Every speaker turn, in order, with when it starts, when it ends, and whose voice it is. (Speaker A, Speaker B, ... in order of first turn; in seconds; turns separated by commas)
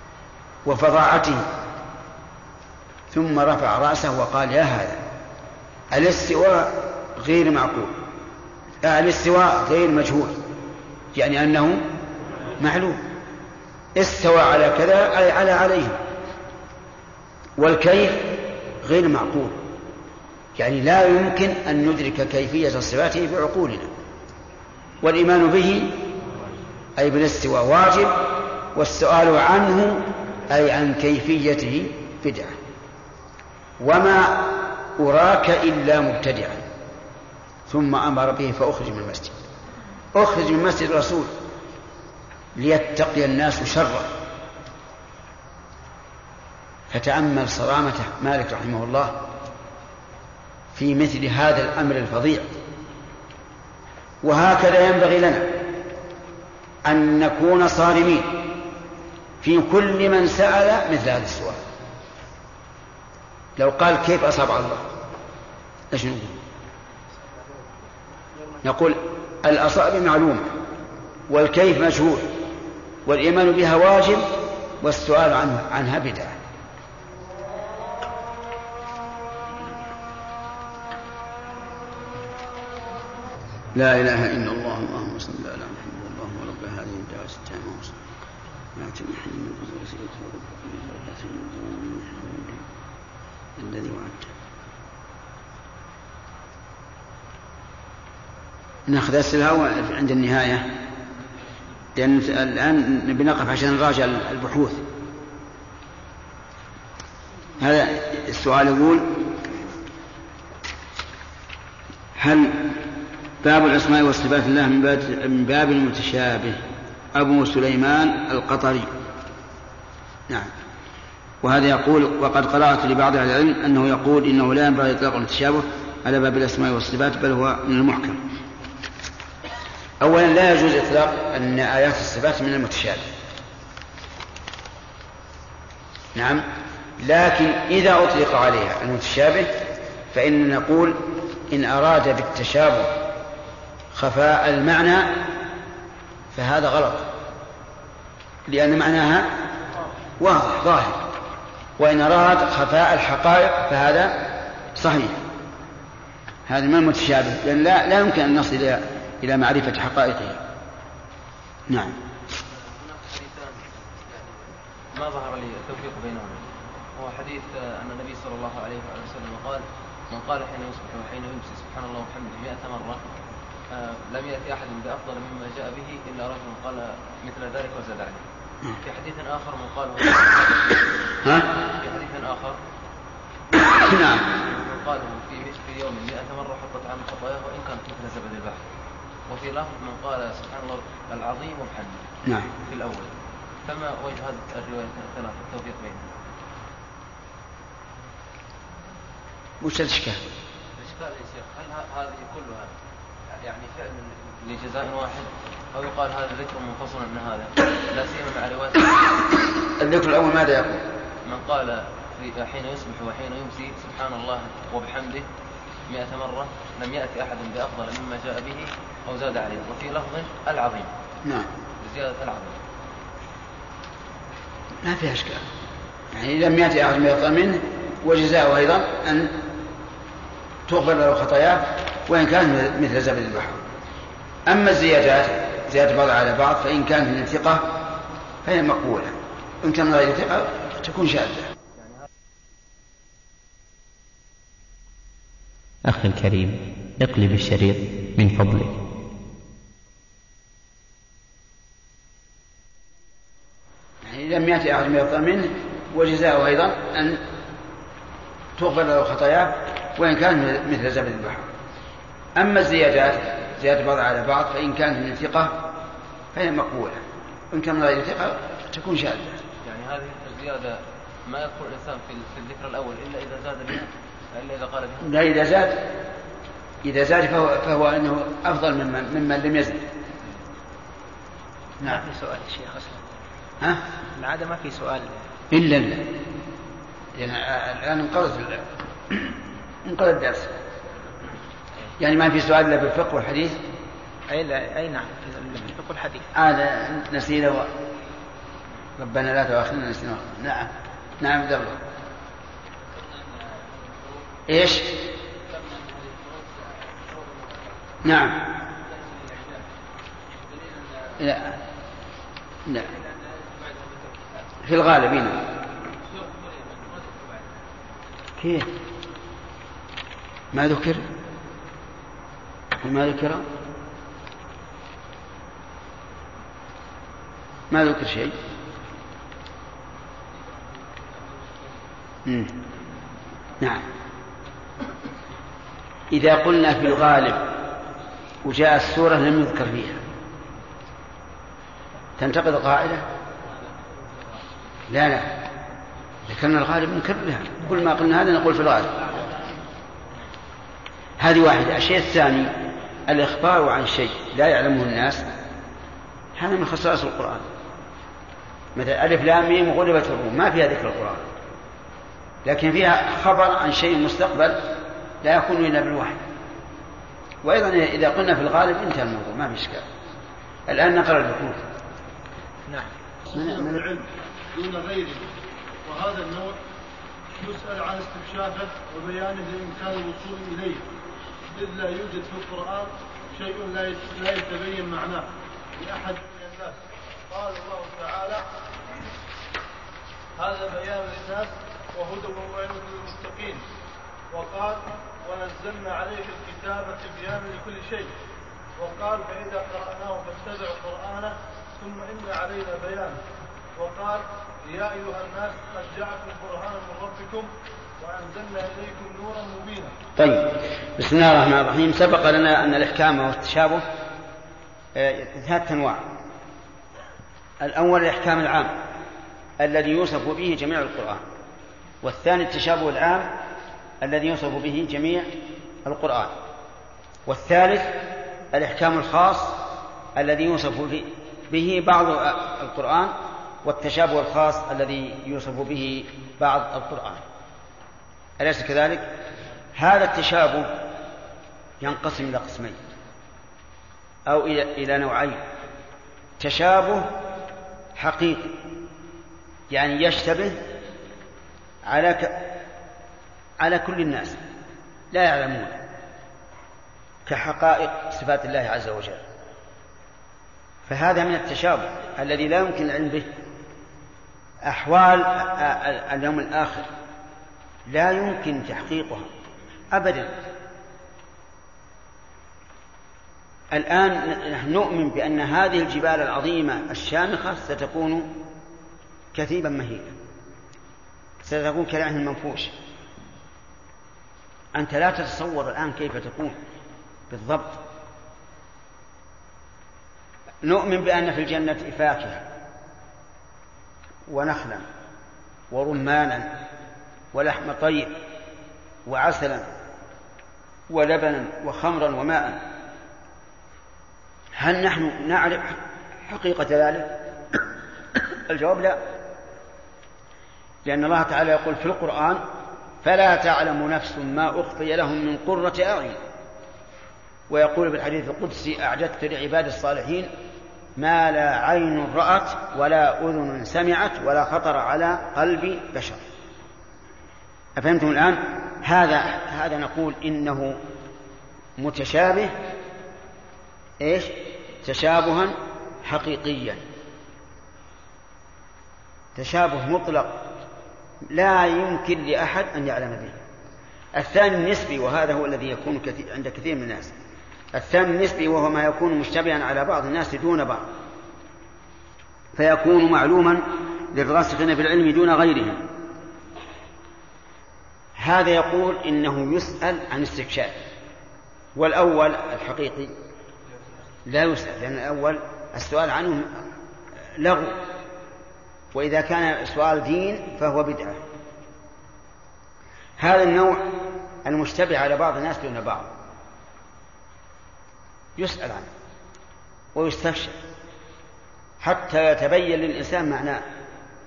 Speaker A: 0.6-1.5, Speaker A: 3.1-5.0, Speaker A: 5.9-8.0, Speaker A: 8.8-10.4, Speaker A: 11.1-11.9, Speaker A: 12.6-13.0, Speaker A: 13.9-16.0, Speaker A: 17.6-19.6, Speaker A: 20.6-23.9, Speaker A: 25.0-26.1, Speaker A: 27.0-32.6, Speaker A: 33.8-36.6, Speaker A: 37.7-39.4, Speaker A: 40.1-41.3, Speaker A: 42.6-44.1, Speaker A: 46.9-49.2, Speaker A: 50.7-52.5, Speaker A: 54.2-55.6, Speaker A: 56.9-58.5, Speaker A: 59.4-61.6, Speaker A: 63.6-64.8, Speaker A: 65.9-66.4, Speaker A: 68.6-70.5, Speaker A: 71.3-72.4, Speaker A: 73.1-74.3, Speaker A: 74.8-76.3, Speaker A: 83.7-87.9, Speaker A: 88.8-92.6, Speaker A: 93.6-94.3, Speaker A: 98.9-100.7, Speaker A: 102.0-104.8, Speaker A: 107.6-109.2, Speaker A: 112.2-112.8, Speaker A: 113.4-116.6, Speaker A: 117.1-118.9, Speaker A: 121.4-128.2, Speaker A: 130.0-133.1, Speaker A: 136.1-136.4, Speaker A: 137.0-139.5, Speaker A: 140.1-142.9, Speaker A: 143.9-145.3, Speaker A: 146.3-147.1, Speaker A: 148.5-149.3, Speaker A: 150.2-151.0, Speaker A: 151.8-155.2, Speaker A: 156.5-160.4, Speaker A: 161.7-162.0, Speaker B: 162.4-166.5, Speaker B: 167.0-173.1, Speaker B: 173.7-178.2, Speaker B: 178.8-182.6, Speaker A: 181.2-181.5, Speaker A: 183.6-184.3, Speaker B: 184.3-188.6, Speaker B: 189.3-192.0, Speaker A: 192.3-192.5, Speaker B: 192.6-193.1, Speaker B: 193.6-196.1, Speaker A: 199.6-200.3, Speaker B: 200.8-202.7, Speaker B: 203.4-209.3, Speaker A: 209.8-210.8, Speaker B: 211.2-215.3, Speaker B: 215.9-220.9, Speaker B: 221.8-222.6, Speaker A: 224.8-225.4, Speaker A: 226.1-229.4, Speaker A: 230.7-233.6, Speaker A: 234.5-237.6, Speaker A: 238.4-241.5, Speaker C: 245.9-248.8, Speaker A: 254.0-257.2, Speaker A: 258.6-261.5, Speaker A: 262.4-265.6, Speaker A: 266.3-269.4, Speaker B: 269.6-275.1, Speaker A: 275.0-275.8, Speaker A: 276.8-279.9, Speaker D: 281.8-283.1, Speaker D: 284.2-285.3, Speaker A: 285.5-286.2, Speaker A: 287.1-289.3, Speaker A: 289.9-290.6, Speaker A: 292.0-293.6, Speaker D: 294.3-296.3, Speaker A: 296.3-297.7, Speaker A: 299.0-301.8, Speaker A: 304.5-305.1, Speaker A: 308.0-308.5, Speaker A: 311.2-311.6, Speaker A: 314.6-315.5, Speaker B: 316.2-316.5, Speaker A: 318.4-318.7, Speaker A: 320.5-321.1, Speaker A: 322.8-323.4, Speaker A: 327.7-328.4, Speaker A: 332.3-332.6, Speaker A: 333.6-333.9, Speaker A: 336.1-337.5, Speaker A: 338.4-340.0, Speaker A: 342.2-343.0, Speaker A: 344.9-345.4, Speaker A: 346.3-349.1, Speaker A: 351.2-355.2, Speaker A: 356.4-357.5, Speaker A: 358.8-361.2, Speaker A: 362.4-366.2, Speaker A: 367.4-369.9, Speaker A: 370.7-371.6, Speaker E: 373.3-375.2, Speaker A: 373.3-373.9, Speaker E: 375.9-376.6, Speaker E: 377.4-380.8, Speaker E: 381.5-388.4, Speaker E: 390.4-393.6, Speaker E: 394.3-398.1, Speaker E: 398.8-403.2, Speaker E: 403.8-407.5, Speaker E: 408.0-409.9, Speaker A: 410.2-413.9, Speaker A: 415.0-416.0, Speaker A: 417.6-418.8, Speaker A: 419.6-421.2, Speaker A: 422.0-423.3, Speaker A: 424.0-425.3, Speaker A: 425.8-426.3, Speaker A: 427.3-428.0, Speaker A: 428.5-429.6, Speaker A: 430.2-437.2, Speaker A: 438.4-439.1, Speaker A: 439.8-440.8, Speaker A: 441.8-442.8, Speaker A: 444.3-445.4, Speaker A: 446.4-447.1, Speaker A: 448.0-448.6, Speaker A: 449.7-450.6, Speaker A: 451.9-452.5, Speaker A: 453.6-454.4, Speaker A: 455.1-455.8, Speaker A: 457.3-459.2, Speaker A: 460.9-463.3, Speaker A: 464.6-466.9, Speaker A: 467.9-469.3, Speaker A: 469.9-470.3, Speaker A: 473.7-478.4, Speaker A: 479.3-480.1, Speaker A: 481.4-482.8, Speaker A: 484.8-486.6, Speaker A: 487.3-487.8, Speaker A: 490.6-492.4, Speaker A: 494.3-494.9, Speaker A: 495.7-496.5, Speaker A: 497.3-498.2, Speaker A: 499.1-499.7, Speaker A: 500.9-502.6, Speaker A: 504.6-507.2, Speaker A: 508.5-509.0, Speaker A: 510.8-512.5, Speaker A: 513.0-516.2, Speaker A: 517.5-520.3, Speaker A: 521.0-526.2, Speaker A: 527.8-530.8, Speaker A: 531.8-532.6, Speaker A: 534.0-536.8, Speaker A: 539.4-540.5, Speaker A: 541.3-543.4, Speaker A: 544.1-547.1, Speaker A: 547.7-550.9, Speaker A: 552.6-555.9, Speaker A: 558.2-560.8, Speaker A: 561.8-563.1, Speaker A: 564.3-566.5, Speaker A: 567.4-567.8, Speaker A: 568.9-571.2, Speaker A: 573.2-576.1, Speaker A: 578.4-578.9, Speaker A: 580.0-580.6, Speaker A: 581.8-583.6